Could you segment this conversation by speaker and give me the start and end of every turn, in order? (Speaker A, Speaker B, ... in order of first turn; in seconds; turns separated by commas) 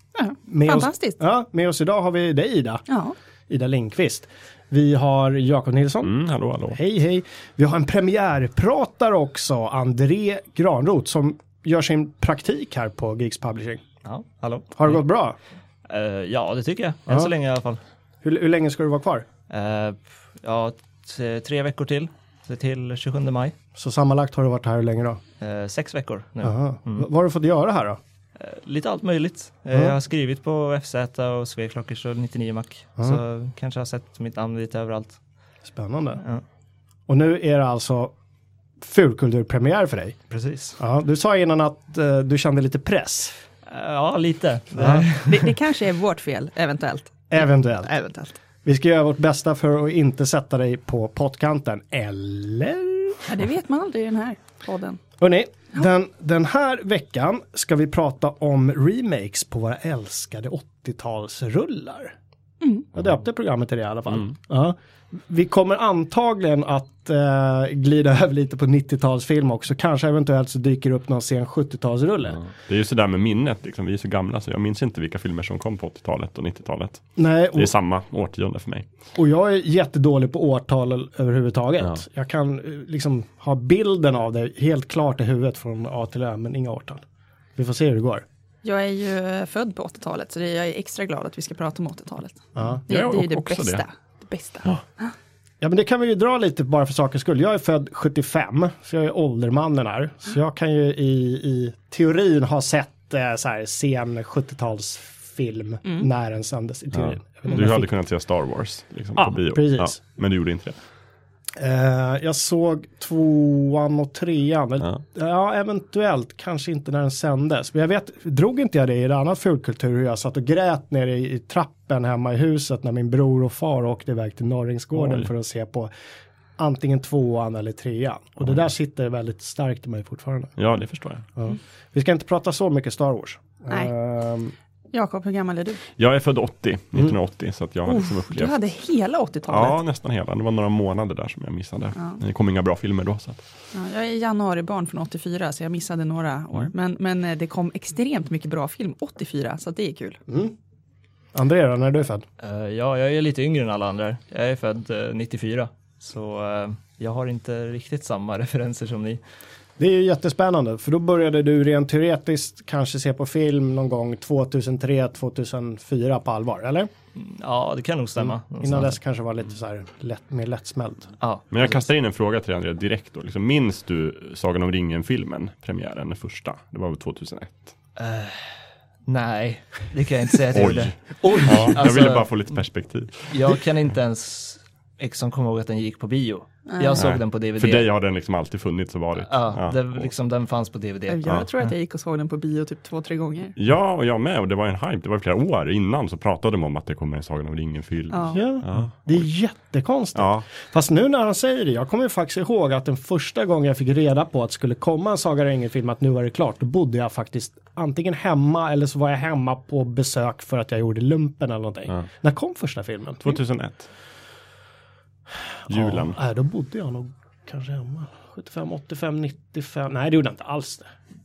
Speaker A: 0.2-1.2, Speaker B: 0.5-2.8, Speaker A: 2.9-3.1, Speaker B: 3.5-6.2, Speaker C: 6.0-6.8, Speaker B: 6.7-13.8, Speaker D: 14.1-15.0, Speaker B: 14.8-15.4, Speaker D: 15.9-17.8, Speaker B: 18.2-19.3, Speaker D: 19.5-23.6, Speaker B: 23.8-25.2, Speaker D: 25.4-27.1, Speaker B: 26.4-28.0, Speaker D: 28.4-35.2, Speaker B: 35.6-36.2, Speaker B: 37.1-38.1, Speaker B: 38.8-40.2, Speaker D: 40.3-40.8, Speaker B: 40.8-43.4, Speaker D: 43.7-45.5, Speaker B: 44.7-45.1, Speaker A: 45.2-48.4, Speaker B: 47.3-47.9, Speaker B: 48.6-53.3, Speaker A: 53.2-55.0, Speaker B: 55.2-62.1, Speaker A: 62.6-62.9, Speaker B: 62.9-72.4, Speaker C: 72.4-78.9, Speaker B: 77.2-77.7, Speaker B: 79.1-87.0, Speaker B: 87.6-88.2, Speaker A: 88.6-95.1, Speaker B: 92.6-92.8, Speaker C: 92.9-93.8, Speaker B: 95.6-107.9, Speaker C: 107.0-110.8, Speaker B: 109.2-110.0, Speaker B: 111.6-125.9, Speaker C: 125.0-125.3, Speaker B: 126.6-130.6, Speaker C: 130.6-131.2, Speaker B: 131.4-134.5, Speaker A: 134.9-135.8, Speaker C: 136.0-138.6, Speaker A: 137.9-139.8, Speaker C: 139.5-143.4, Speaker A: 143.7-150.2, Speaker B: 150.3-150.5, Speaker B: 151.3-152.2, Speaker D: 152.4-159.2, Speaker B: 159.8-166.9, Speaker D: 167.1-169.0, Speaker B: 168.6-171.1, Speaker D: 171.2-171.5, Speaker C: 171.5-177.7, Speaker D: 178.0-182.3, Speaker C: 180.5-183.6, Speaker B: 181.2-181.9, Speaker D: 183.3-187.9, Speaker A: 186.7-187.1, Speaker C: 186.9-190.1, Speaker D: 189.2-191.7, Speaker A: 191.1-193.6, Speaker C: 193.6-199.2, Speaker A: 198.1-198.4, Speaker B: 198.3-213.4, Speaker C: 200.1-200.4, Speaker C: 213.2-213.9, Speaker B: 215.7-220.9, Speaker C: 215.7-216.2